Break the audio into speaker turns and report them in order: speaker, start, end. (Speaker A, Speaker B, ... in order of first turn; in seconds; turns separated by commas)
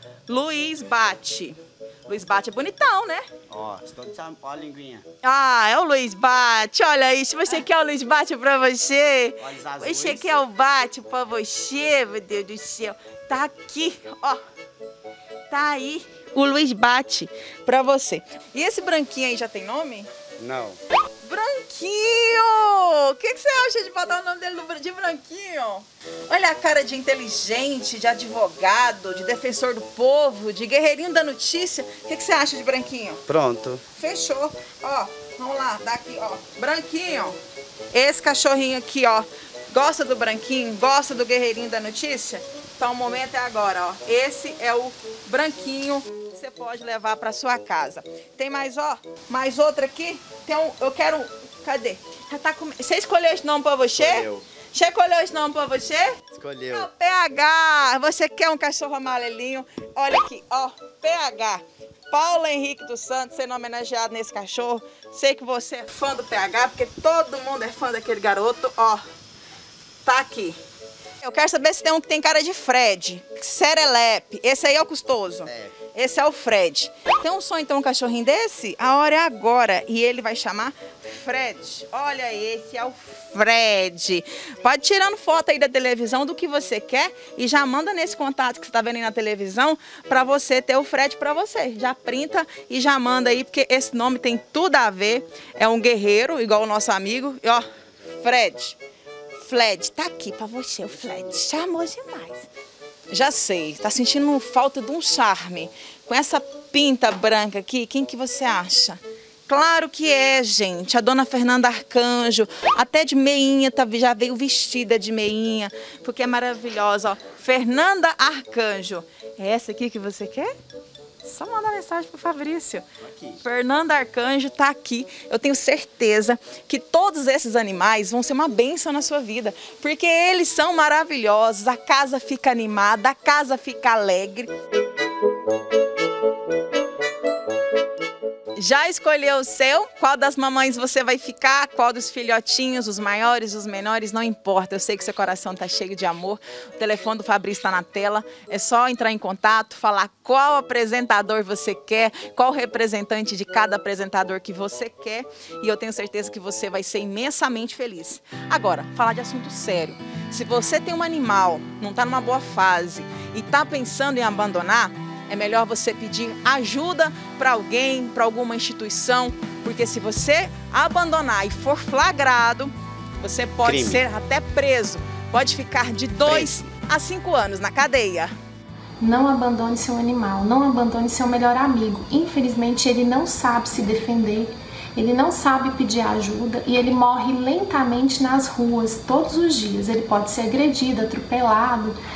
Speaker A: 0.3-3.2, Speaker B: 3.5-5.0, Speaker A: 5.2-14.4, Speaker B: 9.4-10.4, Speaker A: 15.5-20.1, Speaker B: 20.4-20.8, Speaker A: 21.2-33.2, Speaker B: 33.3-33.8, Speaker A: 33.9-37.4, Speaker A: 37.9-56.2, Speaker B: 53.9-54.4, Speaker B: 56.3-56.9, Speaker A: 56.7-69.0, Speaker A: 70.0-70.6, Speaker A: 71.2-98.8, Speaker B: 75.5-75.8, Speaker A: 99.4-102.5, Speaker A: 103.1-120.5, Speaker A: 121.2-122.8, Speaker B: 123.0-123.4, Speaker A: 123.4-134.5, Speaker A: 138.6-178.3, Speaker B: 173.6-174.0, Speaker B: 176.2-176.6, Speaker C: 179.0-192.0